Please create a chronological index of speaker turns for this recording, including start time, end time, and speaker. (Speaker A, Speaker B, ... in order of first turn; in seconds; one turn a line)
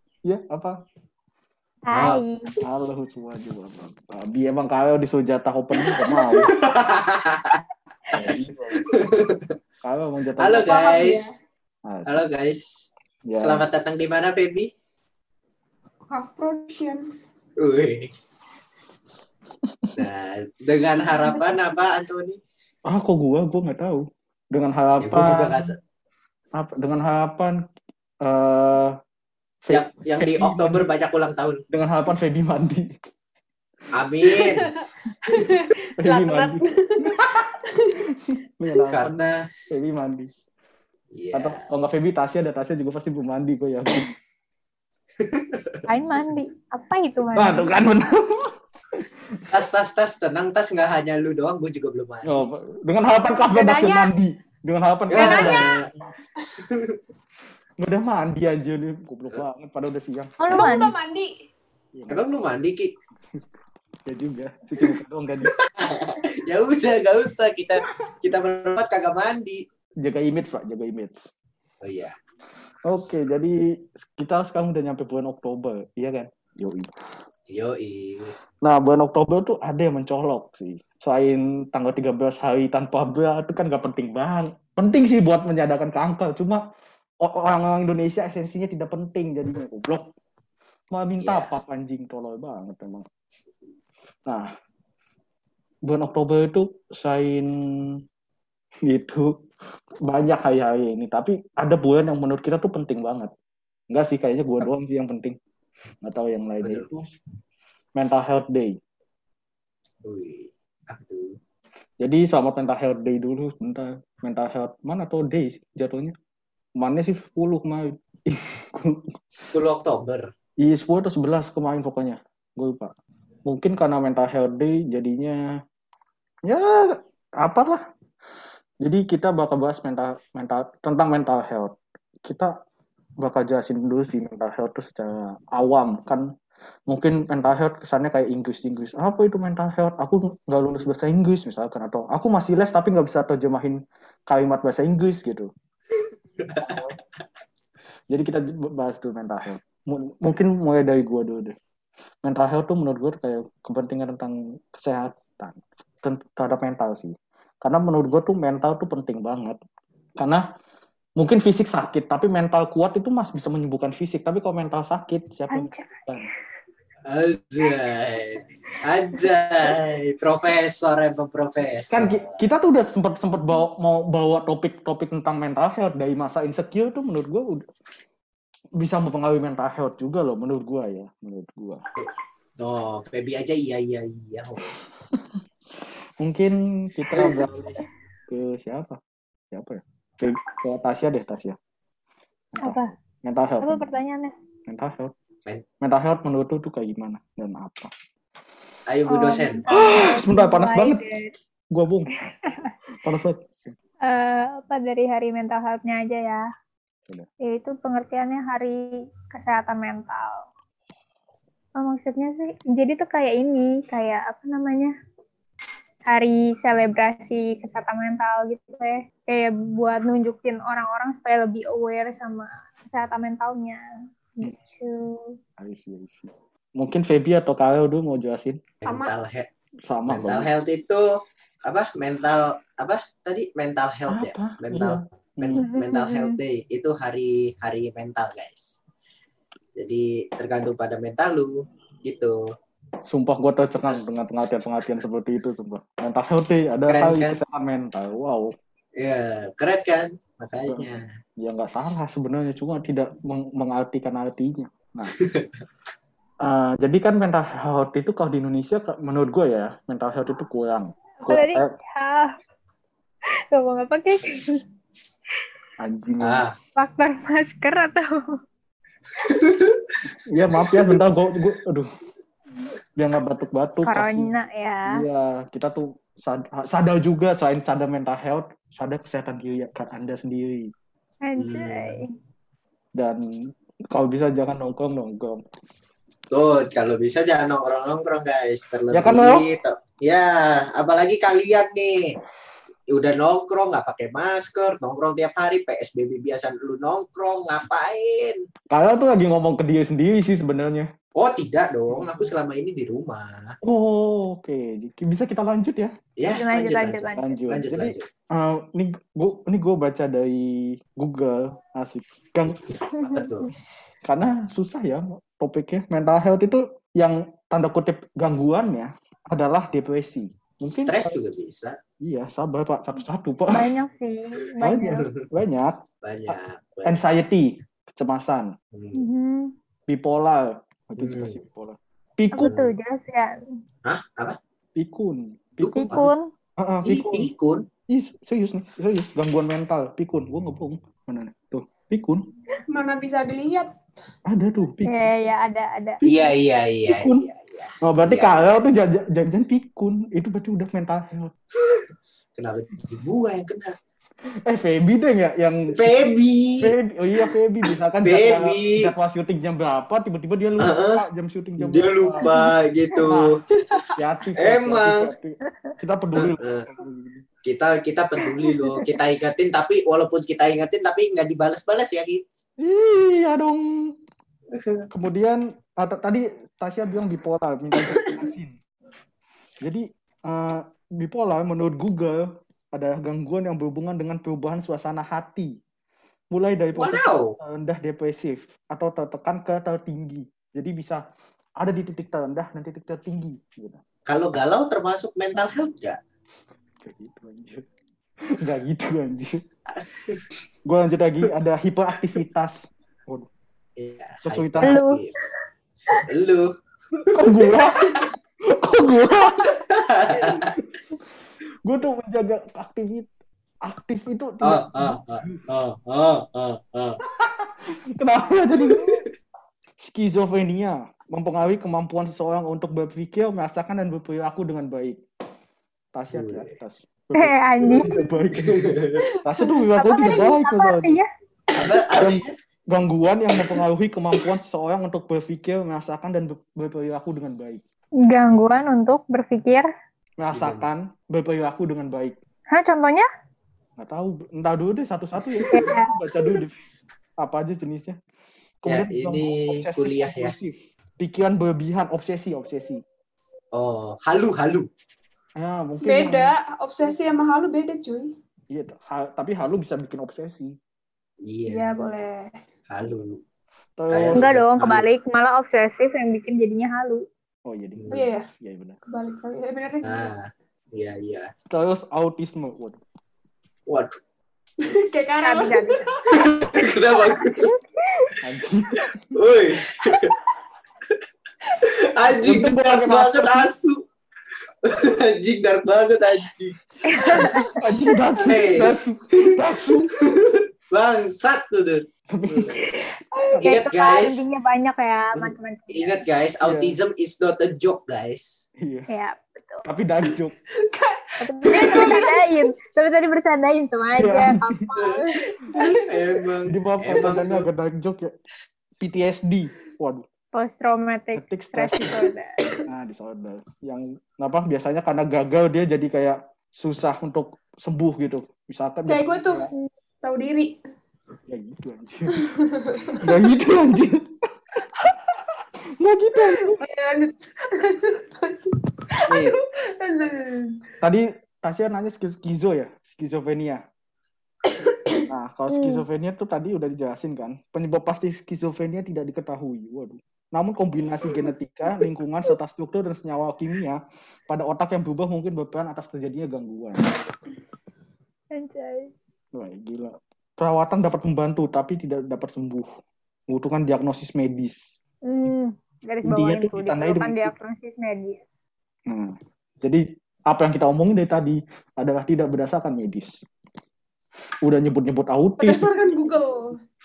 Speaker A: 0.3-0.8
Speaker B: 1.9-2.6
Speaker C: 1.9-2.2
Speaker A: 2.6-6.5
Speaker C: 6.4-7.6
Speaker A: 8.1-8.9
Speaker C: 8.1-9.6
Speaker A: 9.8-10.8
Speaker C: 10.4-11.2
Speaker D: 10.7-11.3
Speaker A: 11.8-12.2
Speaker C: 12.1-12.7
Speaker A: 13.2-13.7
Speaker C: 13.4-14.7
Speaker D: 16.1-17.1
Speaker C: 17.6-18.1
Speaker C: 19.9-22.4
Speaker D: 21.2-21.6
Speaker A: 22.9-25.7
Speaker C: 25.0-25.8
Speaker A: 26.5-27.6
Speaker A: 28.2-28.9
Speaker A: 29.6-30.9
Speaker C: 29.7-31.6
Speaker A: 31.7-32.9
Speaker C: 33.9-34.7
Speaker D: 34.3-38.0
Speaker A: 36.0-37.3
Speaker A: 38.3-40.3
Speaker C: 38.8-39.5
Speaker C: 41.1-41.6
Speaker A: 41.3-44.1
Speaker C: 45.2-45.8
Speaker B: 45.9-47.8
Speaker A: 47.4-48.5
Speaker C: 49.5-52.4
Speaker A: 52.2-55.9
Speaker D: 53.5-54.1
Speaker C: 55.1-55.9
Speaker D: 55.1-55.8
Speaker C: 56.6-57.0
Speaker A: 57.8-60.4
Speaker B: 60.4-60.9
Speaker D: 60.5-61.3
Speaker A: 61.9-62.2
Speaker C: 62.1-62.9
Speaker A: 64.0-65.5
Speaker C: 65.4-69.6
Speaker A: 70.0-71.3
Speaker C: 71.8-72.2
Speaker A: 72.8-76.9
Speaker C: 77.5-78.3
Speaker A: 78.6-86.6
Speaker A: 87.2-90.0
Speaker A: 90.9-93.0
Speaker C: 91.2-91.5
Speaker A: 95.8-97.5
Speaker A: 98.8-99.3
Speaker A: 100.0-103.3
Speaker A: 103.9-105.3
Speaker A: 106.0-107.1
Speaker C: 106.6-106.9
Speaker A: 108.0-108.8
Speaker C: 110.0-111.4
Speaker A: 112.0-116.1
Speaker A: 116.8-119.2
Speaker C: 119.4-120.3
Speaker A: 120.6-122.9
Speaker A: 123.5-125.4
Speaker A: 126.5-127.8
Speaker A: 128.8-132.5
Speaker A: 133.2-136.3
Speaker A: 136.9-145.5
Speaker C: 146.4-146.8
Speaker A: 146.6-146.9
Speaker A: 148.1-151.6
Speaker A: 152.2-159.6
Speaker A: 161.2-166.2
Speaker B: 165.5-166.1
Speaker C: 167.1-172.3
Speaker A: 171.9-177.7
Speaker A: 178.8-181.8
Speaker C: 181.9-184.7
Speaker A: 186.2-189.0
Speaker C: 187.1-187.4
Speaker A: 189.5-191.6
Speaker A: 192.5-193.8
Speaker B: 192.6-192.9
Speaker B: 193.6-194.3
Speaker A: 194.7-195.1
Speaker A: 195.8-197.9
Speaker C: 198.9-199.6
Speaker B: 199.1-201.3
Speaker A: 199.7-201.0
Speaker A: 201.7-202.1
Speaker B: 202.4-202.7
Speaker A: 203.0-203.6
Speaker B: 204.0-206.4
Speaker B: 207.4-210.4
Speaker B: 211.8-214.9
Speaker B: 216.1-223.8
Speaker B: 224.4-225.4
Speaker A: 225.6-228.6
Speaker C: 228.8-229.5
Speaker D: 228.8-229.1
Speaker A: 229.9-230.5
Speaker C: 230.1-231.1
Speaker C: 231.6-238.8
Speaker A: 234.1-235.7
Speaker B: 235.5-236.4
Speaker C: 239.8-242.4
Speaker A: 243.1-248.5
Speaker C: 246.9-247.4
Speaker C: 249.0-251.1
Speaker A: 250.7-255.1
Speaker C: 255.2-255.5
Speaker A: 256.4-261.7
Speaker B: 261.2-262.3
Speaker B: 263.5-264.6
Speaker A: 265.8-266.4
Speaker C: 266.2-266.5
Speaker B: 266.8-268.4
Speaker C: 269.1-269.9
Speaker A: 270.2-271.9
Speaker C: 270.5-271.0
Speaker A: 272.9-274.3
Speaker B: 273.8-275.0
Speaker A: 274.9-280.7
Speaker B: 281.2-282.1
Speaker C: 281.4-281.9
Speaker A: 283.0-283.2
Speaker A: 283.9-285.4
Speaker C: 286.3-292.1
Speaker A: 288.9-289.4
Speaker C: 292.9-298.4
Speaker A: 298.7-300.9
Speaker C: 301.1-303.6
Speaker A: 301.9-302.3
Speaker A: 303.6-305.9
Speaker C: 306.2-308.1
Speaker B: 306.3-307.4
Speaker A: 307.2-312.6
Speaker C: 313.0-313.5
Speaker B: 313.0-313.3
Speaker A: 314.0-321.2
Speaker C: 320.8-321.8
Speaker A: 322.0-323.7
Speaker B: 323.5-325.1
Speaker A: 324.6-325.8
Speaker C: 326.0-326.9
Speaker A: 326.3-328.5
Speaker C: 328.7-329.0
Speaker B: 328.9-329.5
Speaker A: 329.9-332.5
Speaker C: 331.0-331.4
Speaker B: 332.4-333.4
Speaker C: 332.4-332.7
Speaker C: 333.8-334.4
Speaker A: 334.8-336.1
Speaker C: 335.6-336.1
Speaker B: 335.7-336.3
Speaker A: 336.6-337.3
Speaker C: 336.8-337.6
Speaker A: 337.9-342.2
Speaker D: 342.7-343.7
Speaker A: 344.3-345.1
Speaker B: 344.9-346.0
Speaker A: 346.0-346.3
Speaker C: 346.0-348.5
Speaker A: 346.9-347.2
Speaker A: 347.8-351.3
Speaker C: 352.4-353.8
Speaker A: 354.3-355.9
Speaker C: 355.7-356.7
Speaker A: 356.6-362.3
Speaker C: 358.0-358.9
Speaker C: 360.6-361.0
Speaker C: 361.6-363.4
Speaker A: 363.0-363.4
Speaker D: 363.6-363.9
Speaker A: 363.9-367.2
Speaker C: 364.4-365.1
Speaker C: 366.1-366.7
Speaker C: 367.4-372.2
Speaker A: 372.6-373.9
Speaker C: 374.5-374.9
Speaker A: 374.9-378.6
Speaker A: 379.6-385.6
Speaker A: 386.3-391.0
Speaker C: 386.7-387.3
Speaker A: 391.6-393.8
Speaker C: 394.1-396.0
Speaker A: 396.8-397.6
Speaker A: 398.4-399.4
Speaker A: 400.6-403.3
Speaker C: 403.8-405.2
Speaker A: 404.2-404.8
Speaker B: 404.6-405.0
Speaker C: 405.9-408.1
Speaker A: 407.1-409.6
Speaker C: 409.7-410.5
Speaker A: 410.2-410.7
Speaker A: 411.6-413.1
Speaker A: 413.6-415.4
Speaker C: 414.4-417.0
Speaker A: 417.0-419.0
Speaker A: 419.8-425.0
Speaker A: 425.9-428.6
Speaker C: 426.1-426.5
Speaker B: 427.1-428.1
Speaker C: 428.3-429.0
Speaker A: 429.2-430.9
Speaker B: 429.7-431.1
Speaker C: 431.5-432.3
Speaker A: 431.9-437.6
Speaker B: 438.1-439.7
Speaker A: 440.2-442.1
Speaker C: 440.3-440.6
Speaker B: 442.5-443.1
Speaker A: 443.8-446.6
Speaker C: 445.4-445.7
Speaker B: 445.5-446.0
Speaker A: 447.2-448.0
Speaker A: 448.6-452.8
Speaker C: 448.6-450.3
Speaker C: 453.5-454.7
Speaker A: 455.4-456.3
Speaker D: 455.8-458.1
Speaker A: 458.5-460.5
Speaker C: 461.2-461.7
Speaker D: 461.5-462.4
Speaker C: 462.7-463.2
Speaker A: 463.8-464.3
Speaker C: 463.9-464.8
Speaker B: 464.1-467.0
Speaker A: 467.4-468.8
Speaker D: 467.9-468.3
Speaker D: 468.9-470.1
Speaker C: 469.8-471.3
Speaker A: 471.5-472.8
Speaker C: 473.7-474.0
Speaker D: 474.6-477.2
Speaker B: 475.2-475.8
Speaker C: 476.1-477.5
Speaker B: 477.4-478.1
Speaker A: 478.2-479.1
Speaker C: 479.1-480.1
Speaker D: 479.7-480.1
Speaker C: 481.6-483.8
Speaker A: 482.1-483.5
Speaker C: 484.6-487.3
Speaker B: 486.9-487.5
Speaker D: 487.2-487.5
Speaker A: 487.6-489.9
Speaker C: 488.2-492.6
Speaker A: 492.1-492.6
Speaker B: 493.4-496.0
Speaker C: 493.4-494.2
Speaker C: 495.1-498.4
Speaker A: 496.4-496.8
Speaker A: 498.6-498.9
Speaker B: 498.9-499.6
Speaker A: 499.6-500.3
Speaker D: 500.6-502.5
Speaker B: 501.2-505.2
Speaker A: 504.0-504.6
Speaker D: 505.4-506.2
Speaker C: 505.6-507.5
Speaker A: 506.5-508.1
Speaker A: 508.8-510.0
Speaker B: 510.3-512.3
Speaker A: 511.1-512.1
Speaker A: 512.7-519.5
Speaker D: 518.9-519.5
Speaker D: 520.0-520.5
Speaker A: 521.3-522.2
Speaker D: 522.1-523.0
Speaker A: 523.0-524.1
Speaker D: 524.6-525.3
Speaker A: 525.8-526.6
Speaker D: 526.2-530.6
Speaker A: 529.1-529.4
Speaker A: 530.8-533.6
Speaker D: 534.4-535.1
Speaker A: 535.1-546.9
Speaker B: 535.5-535.8
Speaker B: 548.3-548.9
Speaker A: 549.3-552.7
Speaker A: 553.3-554.6
Speaker B: 555.0-558.3
Speaker A: 556.0-557.3
Speaker A: 558.9-563.2
Speaker A: 564.4-565.6
Speaker D: 565.4-566.5